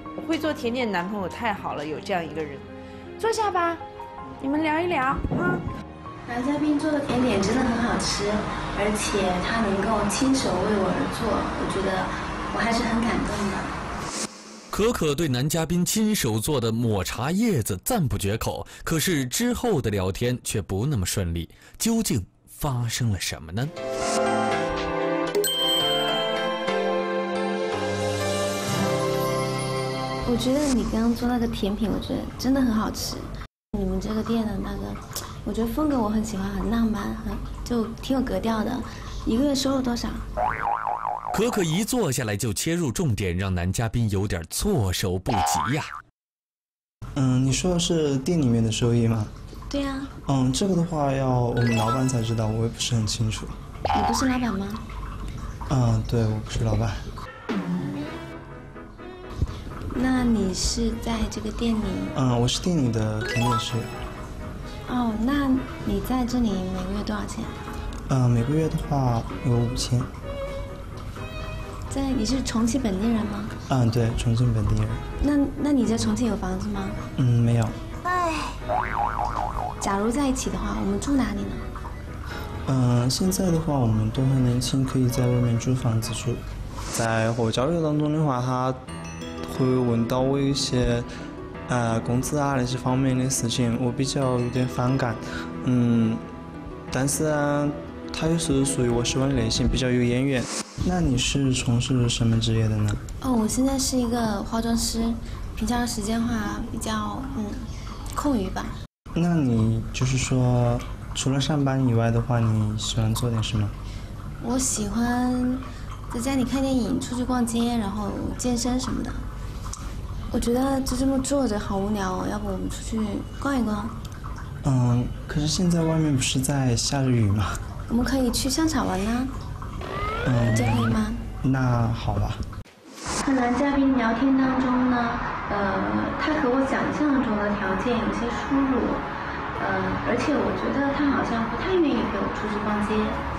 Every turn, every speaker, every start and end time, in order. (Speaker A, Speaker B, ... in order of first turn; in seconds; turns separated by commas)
Speaker A: 0.2-2.6, Speaker A: 3.2-3.8, Speaker A: 4.4-5.3, Speaker B: 6.3-13.7, Speaker C: 14.7-23.7, Speaker B: 30.2-40.2, Speaker C: 41.3-45.9, Speaker D: 47.1-49.3, Speaker B: 49.7-50.1, Speaker D: 50.2-53.5, Speaker B: 53.9-54.8, Speaker D: 55.7-57.0, Speaker B: 59.9-62.1, Speaker D: 62.1-63.9, Speaker B: 64.8-67.5, Speaker D: 68.1-70.1, Speaker B: 71.9-73.5, Speaker D: 73.7-75.0, Speaker B: 75.2-77.0, Speaker D: 77.2-77.8, Speaker B: 79.8-81.7, Speaker D: 82.7-86.4, Speaker D: 86.9-88.8, Speaker D: 89.4-91.1, Speaker D: 91.7-96.2, Speaker D: 96.9-103.0, Speaker B: 103.2-108.8, Speaker D: 109.1-113.7, Speaker B: 114.4-119.2, Speaker B: 120.3-123.9, Speaker D: 124.6-127.6, Speaker B: 127.9-129.3, Speaker D: 130.2-132.4, Speaker B: 130.5-131.2, Speaker B: 133.2-143.2